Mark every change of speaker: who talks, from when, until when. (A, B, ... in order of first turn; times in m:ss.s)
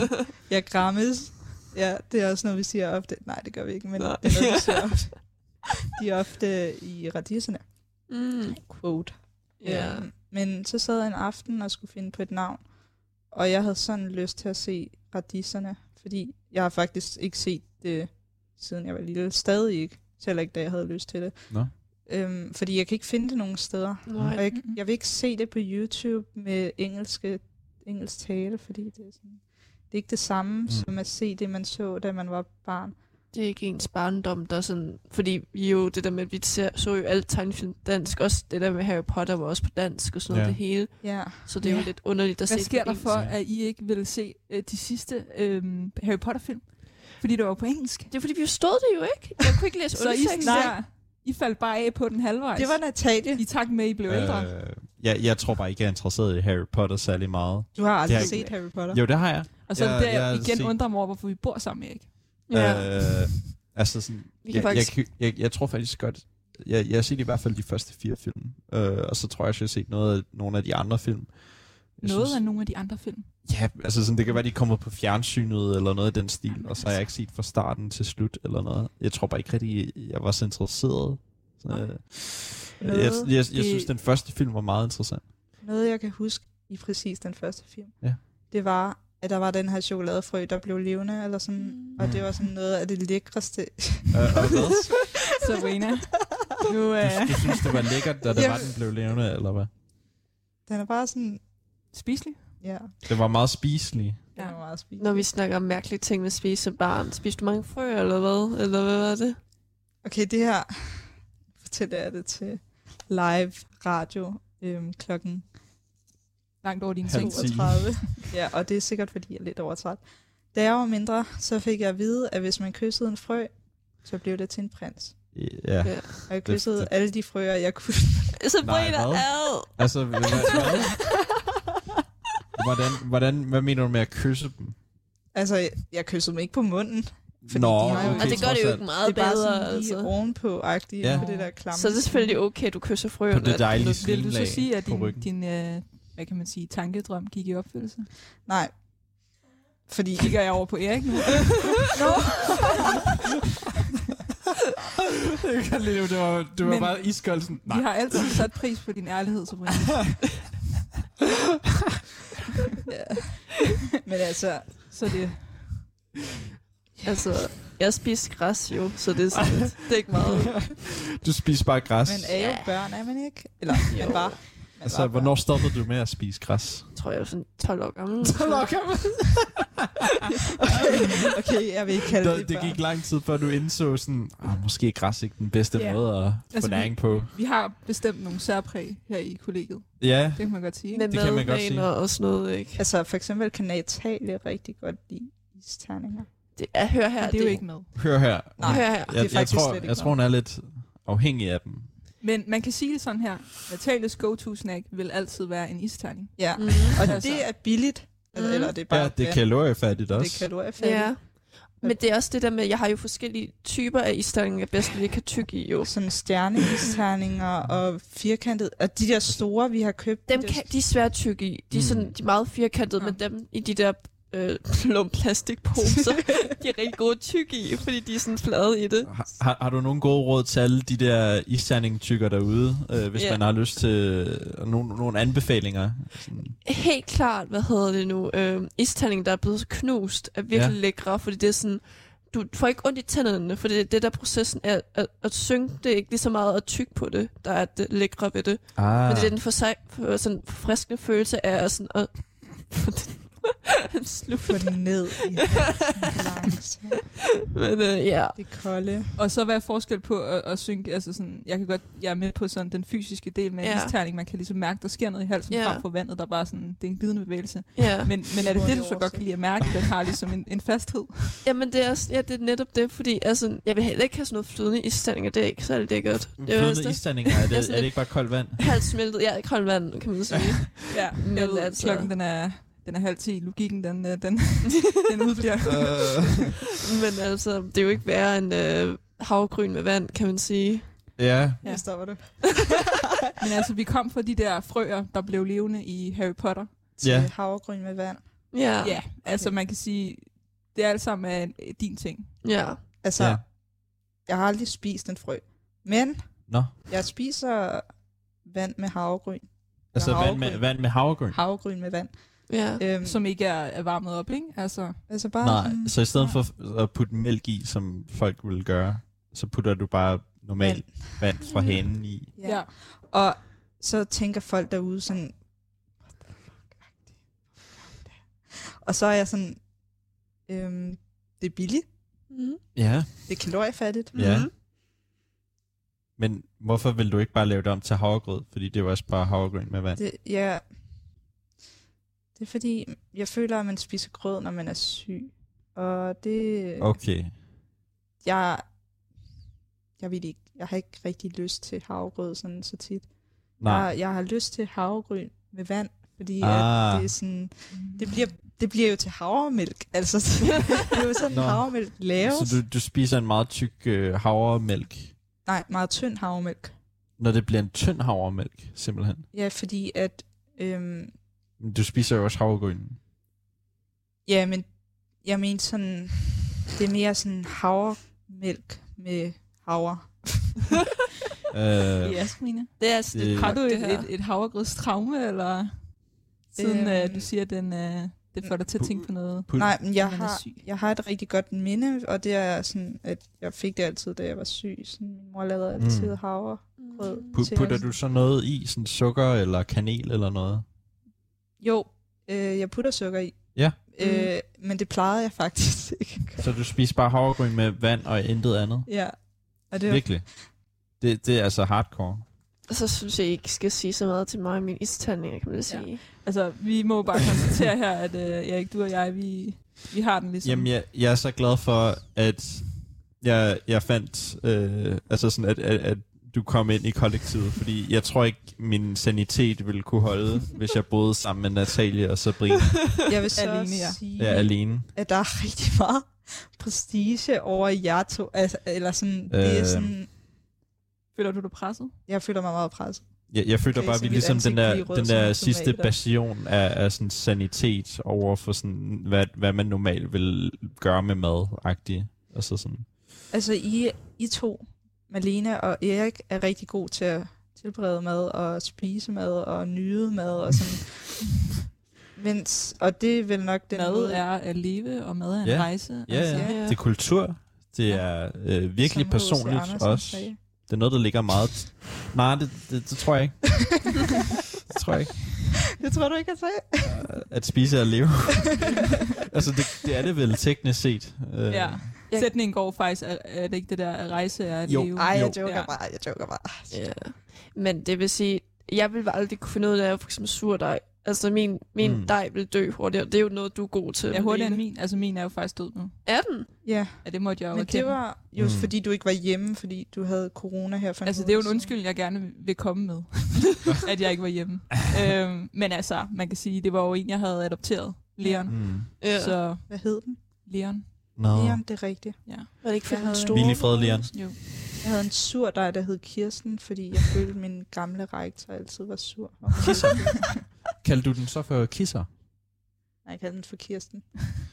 0:00.5-0:33.0 A
0:04.0-0:05.0 B
0:08.1-0:08.7 B
0:09.3-0:10.1 B
0:24.0-0:24.4 B
0:24.5-0:24.8 C
0:30.7-0:31.0 D
0:33.3-0:43.1 B
0:40.3-0:40.6 D
0:41.0-0:41.5 A
0:41.6-0:48.1 C
0:43.1-0:43.4 D
0:48.1-0:50.8 B
0:49.9-0:54.5 C
0:50.4-0:50.8 A
0:52.6-0:53.4 A
0:54.0-1:00.8 D
0:57.7-0:59.0 A
0:58.1-0:58.5 C
0:59.6-1:02.3 C
1:02.5-1:03.3 B
1:02.5-1:12.5 D
1:04.4-1:04.9 B
1:12.0-1:13.3 C
1:13.4-1:25.3 D
1:22.8-1:23.3 A
1:23.5-1:23.9 C
1:25.6-1:35.1 A
1:31.6-1:31.9 B
1:32.0-1:32.3 D
1:34.1-1:35.2 D
1:35.4-1:37.6 C
1:37.0-1:39.7 D
1:38.3-1:38.9 A
1:40.6-1:41.8 A
1:41.9-1:42.6 C
1:42.6-1:42.9 A
1:43.0-1:44.3 D
1:44.3-1:45.3 A
1:45.0-1:49.4 B
1:50.0-1:55.6 A
1:56.6-1:58.1 C
1:57.0-1:58.2 D
1:57.2-2:05.3 A
2:05.3-2:06.9 D
2:05.8-2:06.1 B
2:06.3-2:08.4 A
2:08.4-2:10.6 B
2:08.6-2:11.2 D
2:12.5-2:14.8 D
2:15.3-2:22.1 A
2:17.4-2:18.8 D
2:17.9-2:18.3 C
2:18.1-2:20.1 B
2:21.0-2:21.2 D
2:21.1-2:21.6 C
2:21.7-2:24.0 B
2:22.1-2:22.4 C
2:23.3-2:25.3 D
2:24.0-2:28.1 C
2:28.4-2:31.0 A
2:30.2-2:32.4 C
2:32.0-2:32.8 A
2:35.4-2:38.4 D
2:36.6-2:40.2 C
2:42.9-2:44.9 A
2:44.9-2:45.9 C
2:47.0-2:50.6 B
2:50.6-2:52.4 D
2:52.0-2:55.5 A
2:52.3-2:52.7 B
2:53.9-2:54.4 B
2:54.8-2:56.9 D
2:56.9-2:58.8 B
2:58.3-2:59.1 A
3:01.0-3:02.8 A
3:02.2-3:07.3 D
3:05.7-3:11.1 C
3:10.0-3:11.9 D
3:10.9-3:12.8 B
3:12.8-3:16.3 A
3:16.6-3:17.7 B
3:17.2-3:18.2 C
3:17.9-3:21.9 D
3:18.6-3:20.2 A
3:18.6-3:19.1 B
3:22.2-3:27.5 C
3:26.4-3:32.0 A
3:26.6-3:27.0 B
3:28.3-3:28.7 B
3:28.9-3:30.5 D
3:30.8-3:36.4 B
3:35.8-3:40.7 A
3:40.3-3:49.1 B
3:41.7-3:42.1 D
3:49.0-3:56.6 D
3:53.2-3:53.4 B
3:56.6-4:14.9 B
4:00.5-4:00.8 D
4:08.7-4:09.4 D
4:14.5-4:17.1 A
4:17.5-4:18.4 B
4:18.3-4:19.1 A
4:19.2-4:31.4 C
4:23.6-4:23.9 B
4:25.5-4:25.8 B
4:27.8-4:28.1 B
4:28.4-4:29.4 A
4:31.4-4:42.1 B
4:36.4-4:38.7 D
4:40.9-4:46.4 C
4:45.6-4:46.6 D
4:46.8-4:50.9 B
4:51.2-4:51.6 D
4:51.6-4:52.0 C
4:51.6-4:52.7 A
4:53.4-4:56.9 C
4:57.0-4:58.5 A
4:57.0-4:57.3 D
4:58.5-4:59.1 B
4:58.8-5:02.3 C
4:59.2-4:59.5 A
5:02.4-5:02.8 B
5:03.0-5:13.2 A
5:03.2-5:03.4 D
5:06.5-5:06.7 D
5:09.9-5:11.4 D
5:12.5-5:12.8 B
5:13.0-5:15.1 C
5:15.1-5:16.4 A
5:15.4-5:22.6 D
5:20.6-5:21.5 A
5:22.4-5:32.0 A
5:22.4-5:22.7 C
5:32.3-5:32.6 B
5:32.7-5:34.5 D
5:33.3-5:34.4 A
5:34.1-5:34.5 B
5:36.2-5:40.0 D
5:40.0-5:41.0 A
5:42.3-5:47.0 A
5:46.8-5:47.4 D
5:48.2-5:48.8 A
5:50.0-6:02.6 A
5:53.6-5:53.9 D
5:56.4-5:57.2 D
5:57.7-5:58.2 C
6:01.3-6:05.2 D
6:05.4-6:06.8 A
6:07.2-6:09.3 D
6:09.3-6:11.2 A
6:11.6-6:13.0 D
6:14.2-6:20.8 A
6:21.5-6:23.6 D
6:22.0-6:30.7 C
6:22.8-6:24.1 B
6:26.6-6:27.3 A
6:28.8-6:29.8 D
6:29.5-6:37.9 A
6:35.8-6:36.2 D
6:36.8-6:37.3 B
6:37.3-6:40.6 D
6:41.6-6:46.5 A
6:44.0-6:44.3 B
6:46.4-6:49.2 D
6:48.9-6:50.4 A
6:49.8-6:52.3 D
6:52.7-6:56.0 B
6:55.7-7:00.7 C
7:00.4-7:13.1 D
7:13.1-7:20.1 A
7:13.4-7:14.4 C
7:14.2-7:14.9 D
7:19.3-7:20.0 D
7:21.1-7:22.0 C
7:22.1-7:25.9 A
7:23.3-7:32.9 D
7:33.3-7:41.4 A
7:42.1-7:44.2 A
7:43.7-7:46.5 C
7:45.4-7:53.9 D
7:46.1-7:46.6 A
7:46.4-7:46.8 B
7:47.9-7:50.4 A
7:54.6-7:55.4 D
7:55.8-7:57.3 A
7:56.8-8:01.9 D
8:01.5-8:05.7 C
8:02.1-8:02.3 B
8:04.6-8:05.4 D
8:05.0-8:07.0 A
8:06.7-8:14.6 B
8:11.8-8:12.1 D
8:14.1-8:18.1 C
8:16.0-8:16.5 B
8:16.6-8:21.7 A
8:18.4-8:18.7 D
8:21.0-8:31.0 C
8:28.2-8:28.7 A
8:28.5-8:28.9 D
8:29.0-8:29.4 B
8:29.7-8:30.2 A
8:31.2-8:32.0 D
8:31.3-8:40.4 A
8:32.6-8:34.0 B
8:33.3-8:34.4 D
8:39.6-8:42.1 D
8:43.0-8:44.3 A